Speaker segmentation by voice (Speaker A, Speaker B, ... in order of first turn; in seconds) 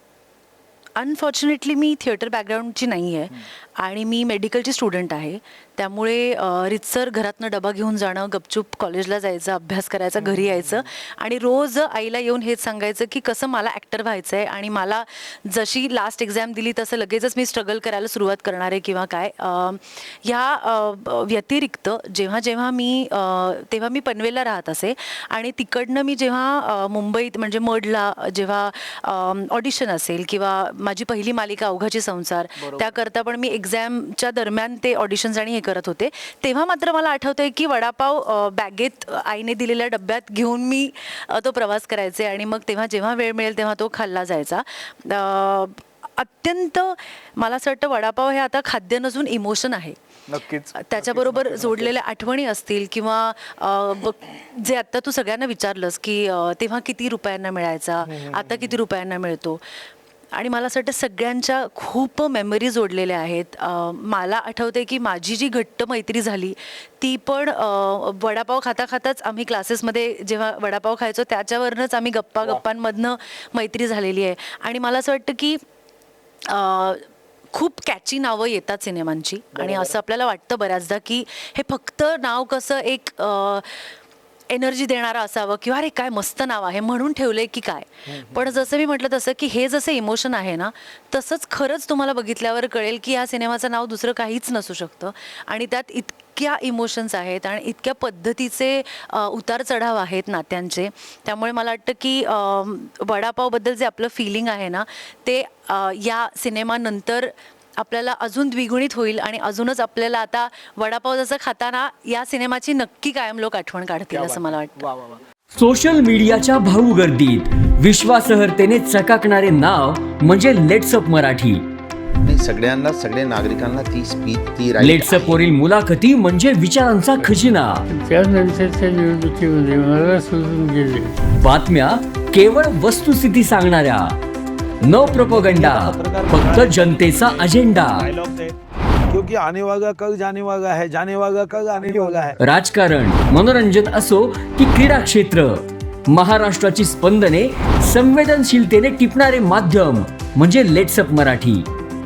Speaker A: 1.0-50.0, 50.8-59.6, 60.3-75.6, 76.5-84.0, 84.5-114.9
Speaker B: 10.2-10.9, 32.6-32.9, 50.3-51.9, 58.1-58.8, 79.5-80.0, 88.1-88.5, 114.1-115.2
Speaker C: 115.5-121.7, 124.8-127.8, 131.4-134.2, 134.8-138.1, 142.4-151.7
Speaker D: 122.2-125.5
Speaker E: 127.2-131.1, 141.8-142.2
Speaker F: 134.8-138.6, 139.1-142.4